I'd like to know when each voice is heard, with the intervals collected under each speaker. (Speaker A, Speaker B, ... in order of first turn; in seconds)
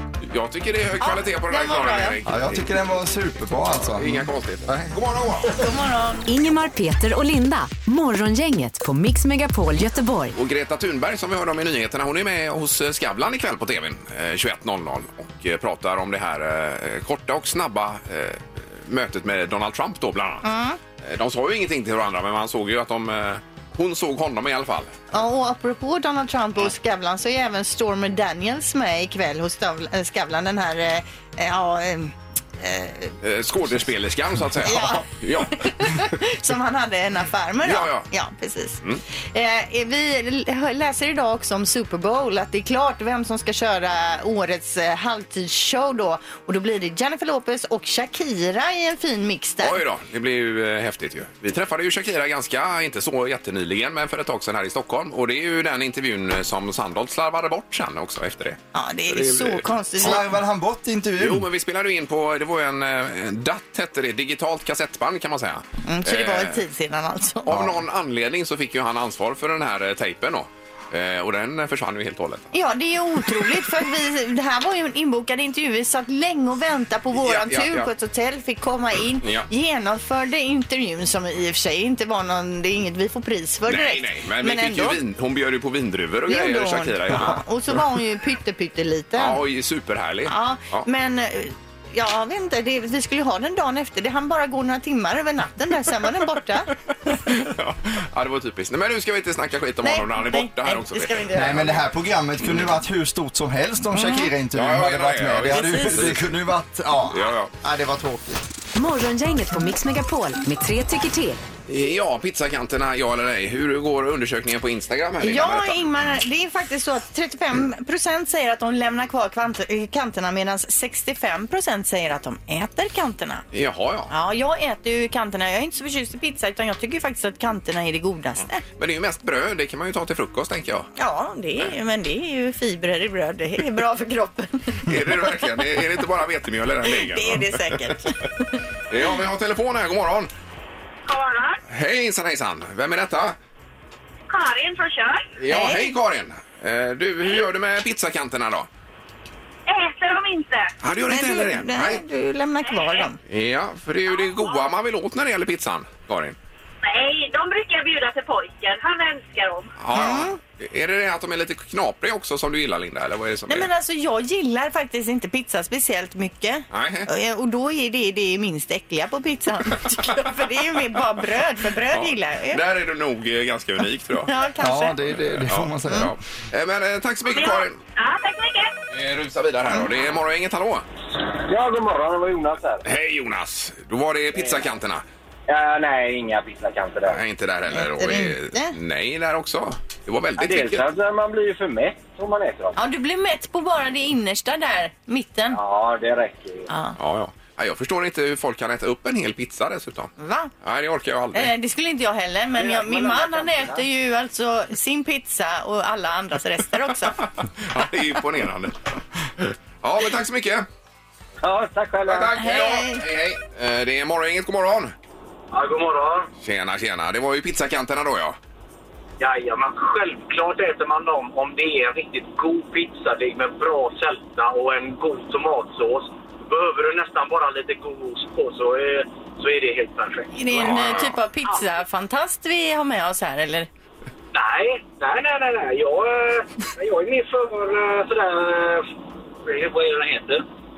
Speaker A: 0.2-2.7, 3.9-5.5, 10.3-20.5, 21.0-24.9, 33.2-36.1, 37.6-38.1, 49.6-60.1, 61.2-66.6, 67.5-72.5, 77.2-77.9, 79.2-79.5, 83.7-87.4, 89.2-90.9, 97.2-101.7, 104.5-106.3, 107.1-107.5, 111.7-115.8, 123.5-124.1, 128.8-130.9, 134.9-137.9, 138.9-140.3, 141.7-143.4, 145.4-148.7, 150.8-152.0, 153.3-156.4, 159.8-163.7, 166.7-167.1, 171.9-174.3, 175.3-177.8, 178.9-180.8, 182.8-185.0, 187.1-190.9, 197.0-200.1, 200.6-201.5, 207.6-208.8, 209.4-210.7, 212.1-214.9, 216.4-218.4, 230.6-231.1
Speaker B: 1.0-2.2, 5.5-6.3, 20.4-20.8, 25.1-33.1, 34.6-49.8, 58.7-60.2, 65.8-67.7, 72.5-85.0, 86.3-89.4, 90.3-96.7, 99.8-101.8, 103.9-104.3, 105.5-106.1, 115.2-123.5, 124.1-128.6, 131.0-134.9, 136.9-138.6, 145.5-145.9, 151.1-153.2, 159.9-160.4, 163.5-172.6, 174.3-175.0, 187.7-188.8, 192.8-195.6, 196.7-197.0, 200.2-200.5, 201.3-207.2, 212.4-213.1, 230.3-233.7
Speaker C: 2.3-5.0, 60.0-61.5, 101.3-108.5, 174.6-176.2
Speaker D: 6.3-10.3, 108.8-111.4
Speaker E: 141.1-141.6, 144.3-145.3, 149.7-150.7, 152.7-153.1, 154.1-154.7, 156.8-159.7, 177.3-178.7
Speaker F: 181.4-182.8, 184.4-184.7, 185.5-187.2, 190.4-192.8, 195.5-196.7, 202.6-203.8, 211.4-212.4, 215.5-216.3, 219.2-230.7, 234.3-238.9, 239.4-240.4